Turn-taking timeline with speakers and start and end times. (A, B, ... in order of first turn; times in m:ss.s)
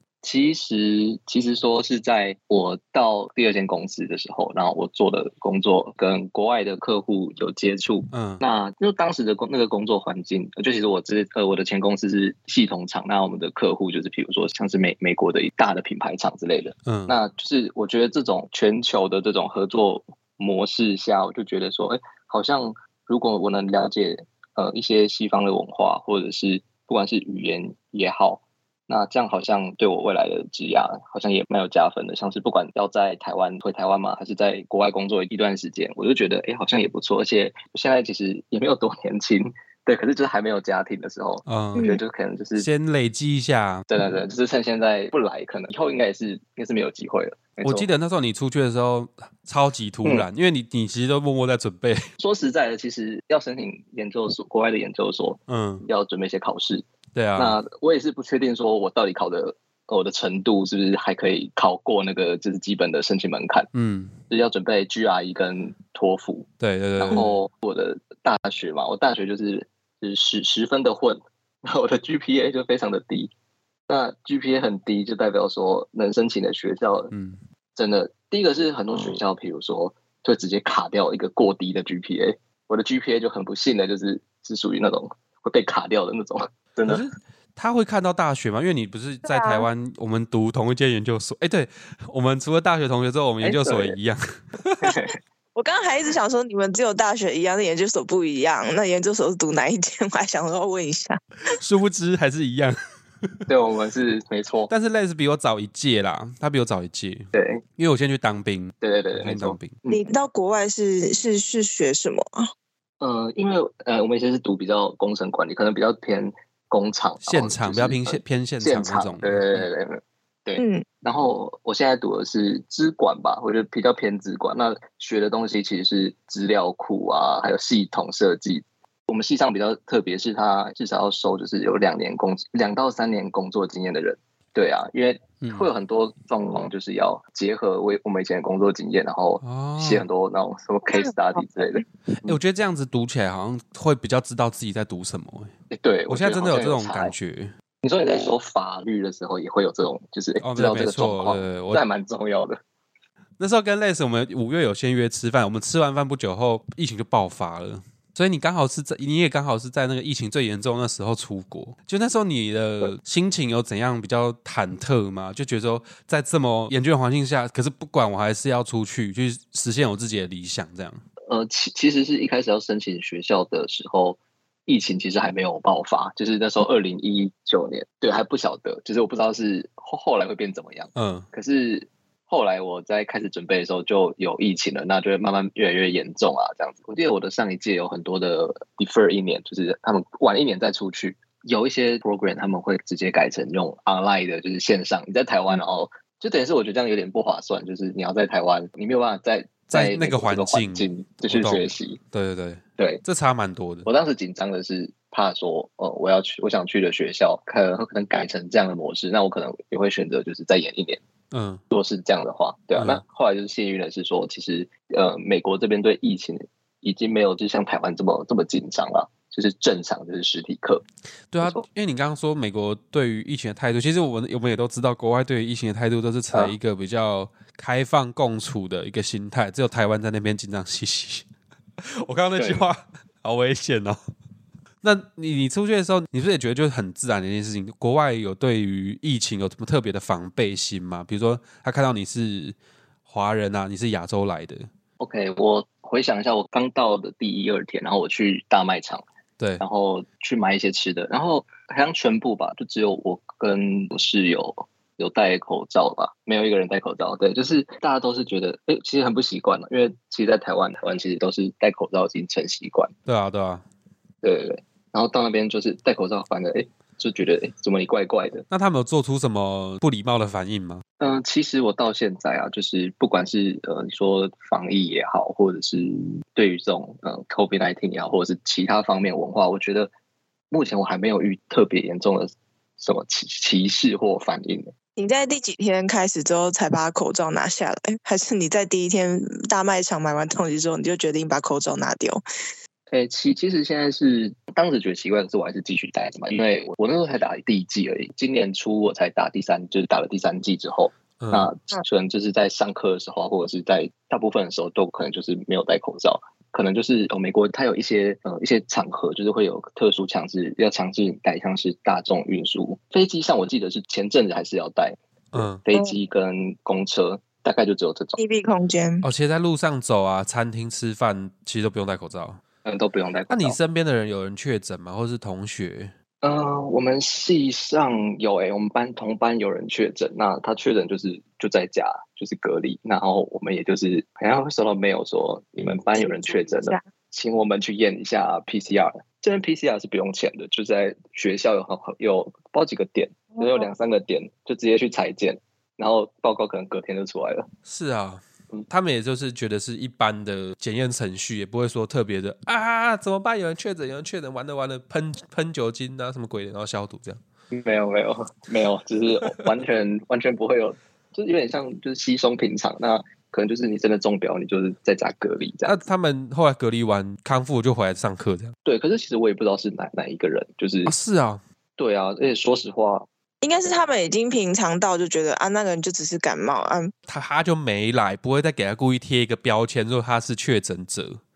0:00.2-0:42.7 A
0:08.1-0:08.4 B
0:16.8-0:17.2 B
0:41.4-0:42.0 B
0:41.7-0:42.0 C
0:42.6-0:43.8 B
0:43.9-0:47.9 A
0:47.6-0:52.0 B
0:52.2-0:56.8 A
0:55.5-0:55.8 B
0:57.1-0:57.6 B
0:57.4-1:03.7 A
1:03.7-1:04.1 B
1:04.3-1:13.3 A
1:06.6-1:07.3 B
1:13.9-1:17.1 A
1:17.1-1:17.4 B
1:17.7-1:27.0 A
1:26.8-1:34.9 B
1:29.2-1:29.7 C
1:33.4-1:34.0 A
1:34.8-1:35.1 A
1:35.5-1:41.2 C
1:41.5-1:43.4 B
1:43.5-1:44.7 A
1:44.7-1:49.7 B
1:47.3-1:47.6 A
1:48.8-1:50.0 A
1:49.9-1:52.5 C
1:53.0-2:22.4 A
1:57.2-1:59.6 B
2:00.6-2:00.8 C
2:15.4-2:15.7 B
2:19.4-2:20.0 B
2:20.9-2:21.1 C
2:22.2-2:25.5 B
2:25.7-2:27.1 A
2:26.1-2:27.5 B
2:27.8-2:32.6 A
2:30.4-2:31.8 B
2:33.4-2:51.0 B
2:51.3-3:22.0 A
3:00.9-3:01.2 B
3:19.7-3:23.9 B
3:22.8-3:23.0 A
3:23.8-3:31.0 A
3:31.3-3:31.6 B
3:31.7-3:40.8 A
3:32.8-3:33.0 B
3:41.3-3:51.2 B
3:51.8-3:54.0 B
3:52.4-3:52.6 A
3:54.8-4:02.6 B
4:03.1-4:04.7 B
4:05.0-4:09.0 A
4:09.6-4:22.9 A
4:23.0-4:23.6 B
4:24.2-4:28.4 A
4:28.5-4:30.8 B
4:31.0-4:39.9 A
4:40.5-4:44.7 A
4:45.0-4:52.2 C
4:52.9-5:18.2 A
5:01.2-5:01.5 B
5:15.3-5:15.6 B
5:18.2-5:19.0 C
5:19.0-5:22.4 B
5:22.6-5:23.6 A
5:23.3-5:25.9 B
5:26.2-5:47.5 A
5:36.0-5:36.8 C
5:43.4-5:43.7 C
5:47.6-5:57.2 B
5:57.5-6:05.8 A
6:05.6-6:08.5 B
6:08.6-6:10.9 A
6:10.8-6:11.4 B
6:11.8-6:13.1 A
6:13.4-6:16.9 C
6:17.1-6:21.2 B